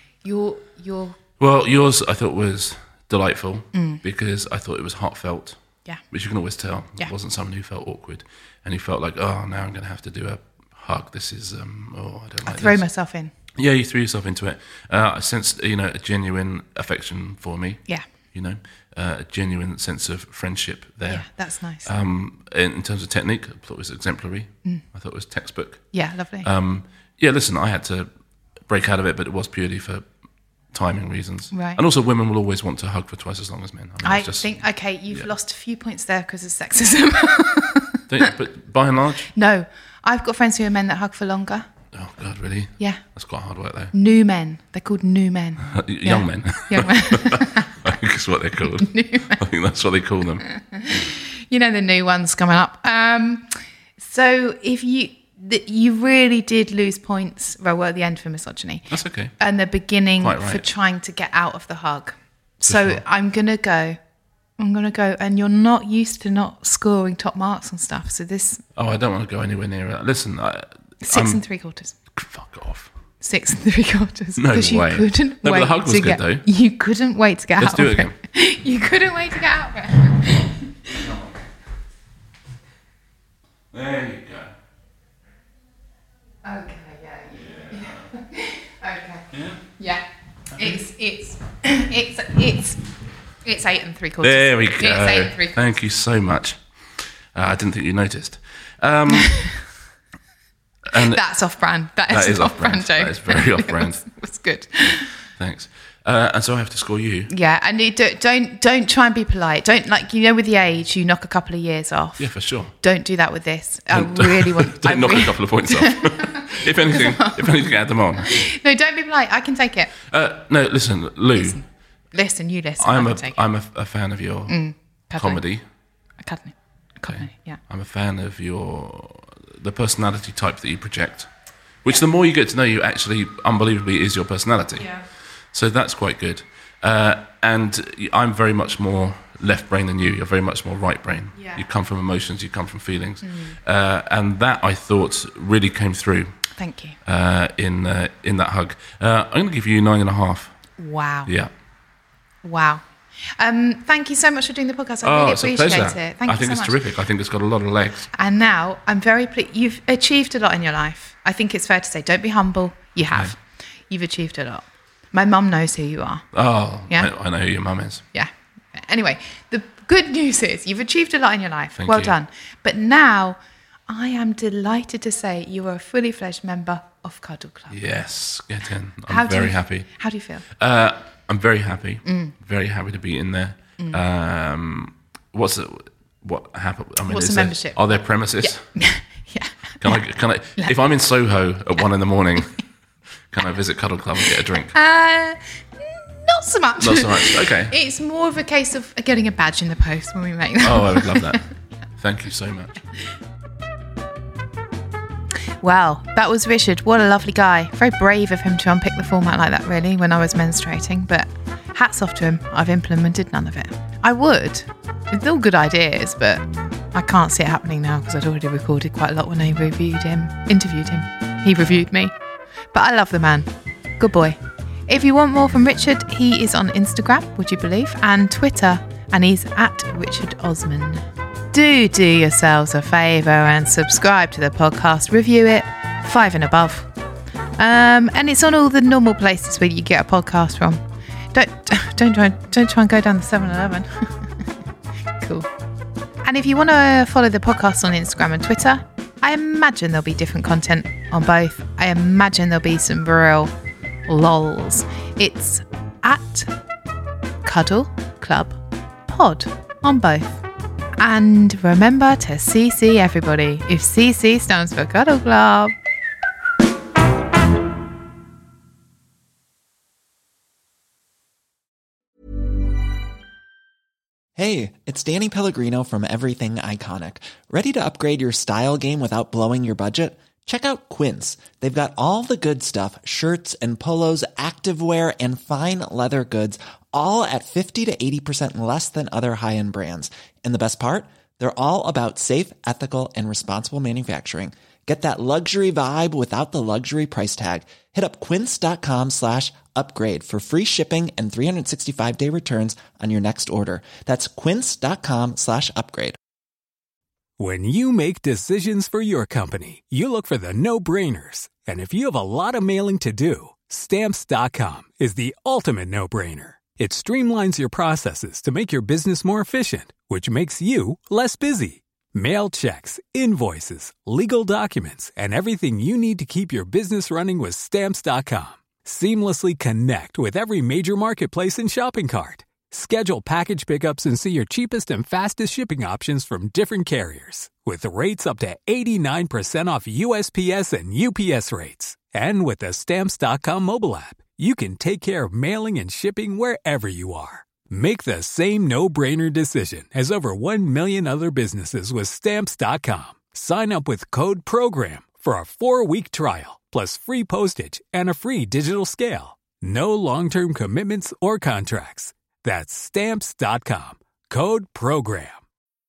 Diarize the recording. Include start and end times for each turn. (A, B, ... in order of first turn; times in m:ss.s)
0:00.2-0:01.2 A
0:01.4-0:05.6 B
0:03.8-0:04.0 A
0:06.1-0:12.8 B
0:12.5-0:13.3 A
0:13.6-0:21.3 B
0:21.1-0:21.9 A
0:21.8-0:28.1 B
0:25.9-0:26.5 A
0:28.7-0:30.0 B
0:30.7-0:35.3 B
0:31.5-0:31.8 A
0:34.0-0:38.0 A
0:38.1-0:39.3 B
0:39.3-0:41.7 A
0:41.9-0:43.9 B
0:43.9-0:47.8 A
0:45.7-0:50.5 B
0:48.8-0:49.4 A
0:50.6-0:58.9 A
0:58.9-0:59.4 B
0:59.4-1:04.0 A
1:00.2-1:00.7 B
1:02.6-1:03.0 B
1:04.6-1:08.6 A
1:08.8-1:11.4 B
1:11.0-1:11.9 A
1:12.2-1:12.9 B
1:13.2-1:20.9 A
1:14.4-1:16.4 B
1:17.6-1:18.1 B
1:20.9-1:21.3 B
1:23.7-1:24.5 B
1:26.4-1:29.3 A
1:27.4-1:28.1 B
1:29.3-1:29.6 B
1:29.8-1:30.0 A
1:30.6-1:30.8 B
1:30.6-1:32.8 A
1:33.4-1:35.6 A
1:34.2-1:36.6 B
1:37.3-1:39.4 B
1:39.1-1:39.5 A
1:40.9-1:41.2 B
1:40.9-1:45.2 A
1:42.1-1:44.0 B
1:45.4-1:47.3 B
1:47.3-2:00.0 A
1:52.2-1:52.8 B
1:53.9-1:58.4 B
2:00.1-2:01.6 B
2:01.4-2:03.4 A
2:02.8-2:04.6 B
2:04.5-2:05.4 A
2:05.2-2:05.6 B
2:06.2-2:07.6 A
2:07.1-2:11.3 B
2:11.8-2:26.3 B
2:23.2-2:23.6 A
2:26.6-2:27.0 A
2:27.1-2:30.6 B
2:30.8-2:31.3 A
2:32.4-2:36.8 A
2:35.0-2:38.1 B
2:38.2-2:46.2 A
2:46.3-2:48.0 B
2:48.1-2:57.8 A
2:51.8-2:52.2 B
2:57.7-2:59.9 B
2:59.1-3:00.4 A
3:00.6-3:08.7 B
3:02.1-3:02.3 A
3:07.1-3:07.8 A
3:08.4-3:10.0 A
3:09.8-3:12.6 B
3:13.3-3:14.7 B
3:14.7-3:21.4 A
3:16.8-3:17.8 B
3:20.6-3:21.4 B
3:22.0-3:22.8 B
3:25.6-3:42.2 A
3:42.7-3:56.9 A
3:57.6-4:00.8 A
4:01.3-4:04.1 A
4:05.2-4:05.5 A
4:06.2-4:13.5 A
4:14.1-4:16.5 A
4:17.4-4:20.4 A
4:21.0-4:25.7 A
4:34.4-5:06.2 C
5:07.4-6:05.4 D